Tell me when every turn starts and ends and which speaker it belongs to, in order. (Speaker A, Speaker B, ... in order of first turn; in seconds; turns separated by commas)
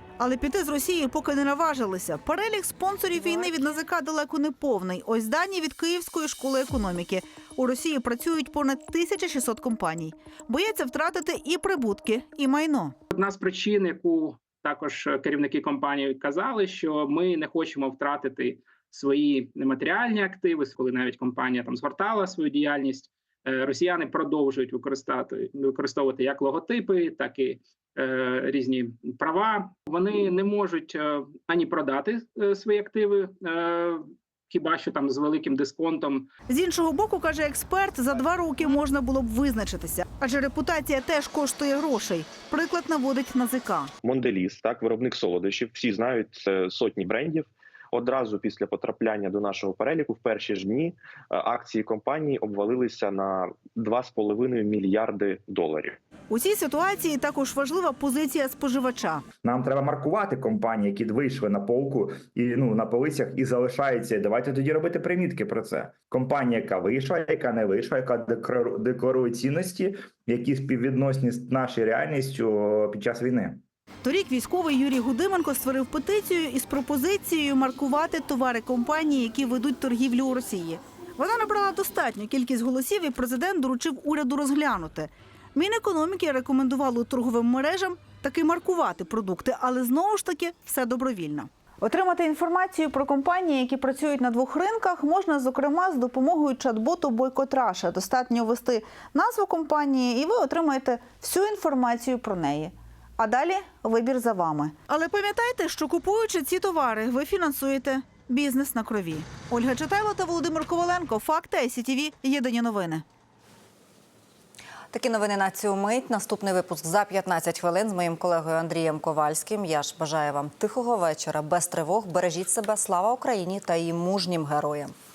Speaker A: 0.2-12.9, Speaker B: 13.1-36.3, Speaker A: 36.5-43.9, Speaker C: 44.1-56.0, Speaker A: 56.3-59.2, Speaker D: 59.4-73.6, Speaker A: 74.0-113.0, Speaker E: 114.9-124.9